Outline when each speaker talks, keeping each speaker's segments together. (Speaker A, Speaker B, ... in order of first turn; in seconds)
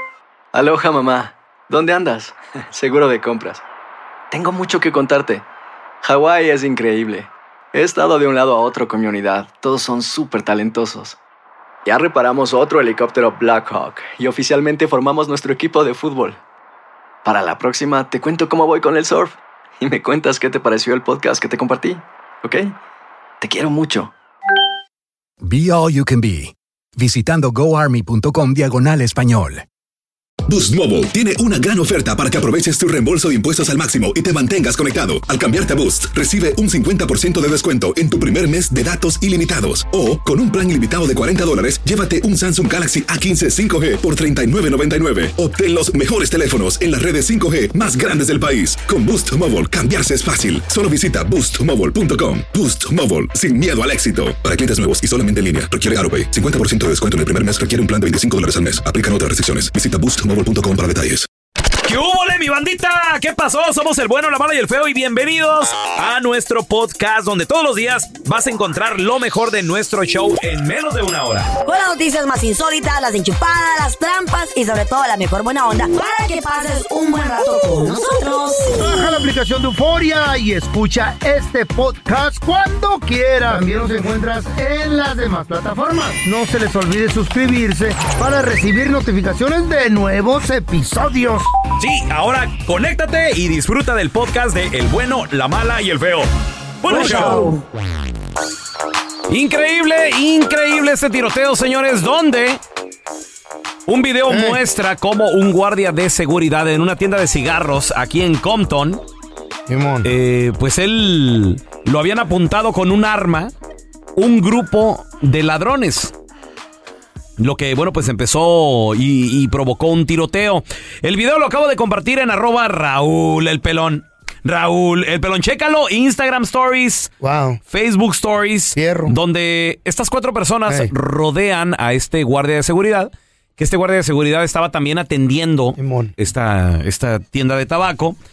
Speaker A: 0.5-3.6, 4.3-5.4, 6.0-11.2, 11.8-16.4, 17.2-22.8, 23.4-24.1
Speaker B: 25.4-29.6
Speaker C: 30.5-61.3
Speaker D: 61.8-71.5, 91.8-96.3, 96.8-97.5, 99.3-102.6, 103.9-109.0, 110.0-113.5, 114.2-116.1, 117.4-127.1, 127.7-138.2
Speaker E: 71.6-78.9, 96.9-97.6
Speaker F: 78.7-91.5, 96.9-97.5, 104.3-104.6, 109.7-110.1, 127.2-127.6, 128.8-129.2, 135.8-136.1